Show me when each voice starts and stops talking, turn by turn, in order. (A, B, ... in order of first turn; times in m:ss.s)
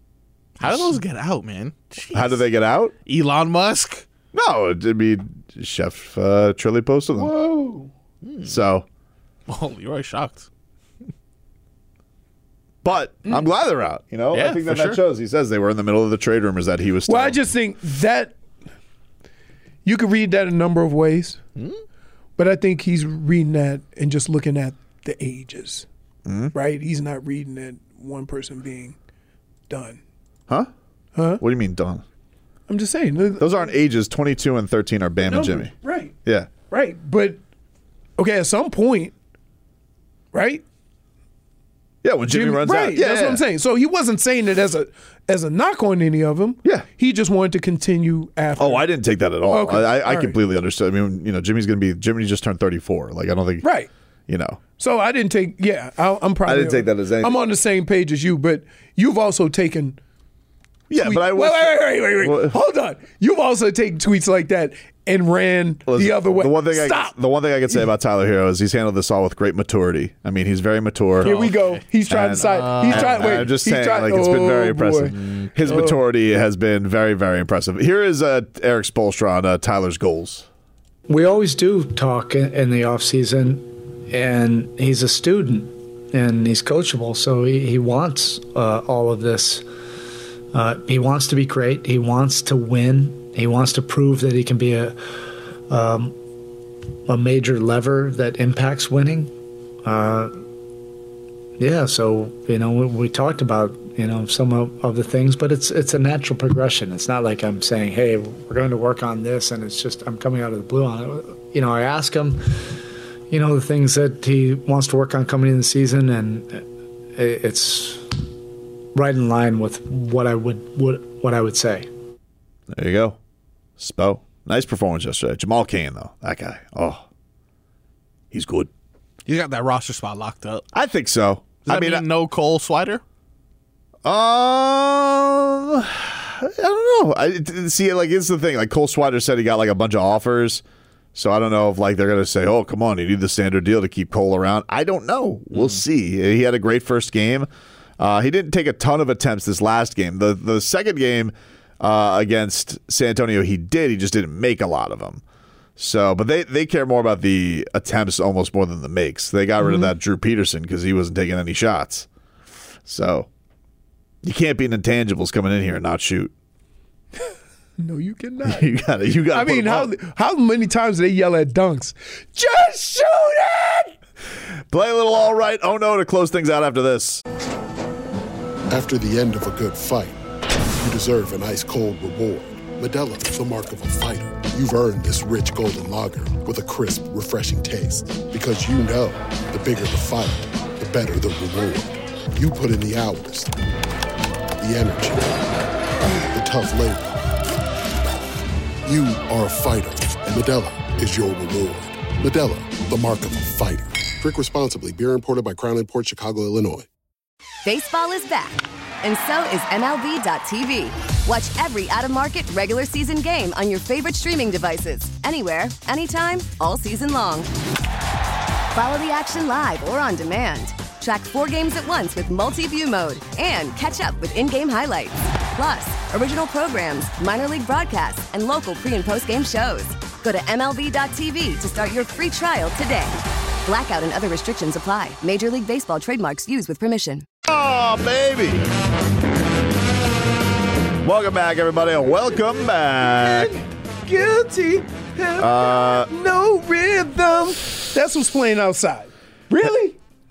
0:00.6-0:02.4 A
0:00.6-0:01.0 B
0:02.1-0:02.9 B
0:03.0-0:04.0 A
0:04.3-0:07.3 B
0:07.2-0:07.9 C
0:08.2-0:08.6 A
0:08.4-0:08.8 B
0:09.5-0:10.5 A
0:12.8-0:17.4 B
0:14.3-0:15.0 A
0:17.1-0:18.4 C
0:19.8-0:21.4 C
0:22.4-0:25.9 C
0:26.2-0:26.5 B
0:26.5-0:29.0 C
0:29.7-0:30.0 C
0:31.2-0:31.4 C
0:31.4-0:32.0 B
0:32.7-0:33.7 C
0:33.4-0:35.7 B
0:35.2-0:36.1 C
0:36.2-0:36.5 B
0:36.7-0:37.4 C
0:38.2-0:39.1 C
0:40.3-0:40.6 C
0:42.0-0:43.4 B
0:42.3-0:48.9 C
0:48.6-0:53.7 B
0:49.5-0:50.4 C
0:53.6-0:53.9 C
0:54.3-0:54.6 B
0:54.7-1:00.0 C
0:56.4-0:57.4 B
1:00.9-1:02.6 B
1:01.0-1:07.1 C
1:05.9-1:11.4 B
1:11.2-1:11.8 A
1:11.2-1:15.1 C
1:12.1-1:20.5 B
1:12.4-1:13.5 A
1:15.1-1:15.9 A
1:15.6-1:16.0 C
1:21.1-1:29.6 D
1:30.5-1:35.0 D
1:35.7-1:36.1 D
1:37.1-1:39.3 D
1:39.8-1:40.3 D
1:41.6-1:52.7 D
1:53.3-1:56.6 D
1:57.2-1:58.0 D
1:58.9-2:01.9 D
2:02.7-2:03.2 B
2:03.8-2:07.0 B
2:08.3-2:08.7 B
2:09.2-2:10.6 A
2:10.7-2:12.1 B
2:11.6-2:13.0 A
2:14.0-2:20.6 B
2:21.1-2:27.5 B
2:28.0-2:35.2 B
2:35.8-2:42.1 B
2:39.6-2:39.9 C
2:42.8-2:43.3 B
2:44.2-2:46.3 B
2:47.8-2:48.7 C
2:48.4-2:49.9 B
2:49.3-2:53.9 C
2:54.7-2:57.2 B
2:58.7-3:00.2 E
3:00.8-3:13.5 E
3:14.6-3:15.4 E
3:16.3-3:17.2 E
3:18.8-3:26.8 E
3:27.6-3:37.5 F
3:38.7-3:57.2 F
3:57.4-3:58.7 B
4:01.0-4:03.6 B
4:03.0-4:10.0 C
4:05.4-4:06.1 B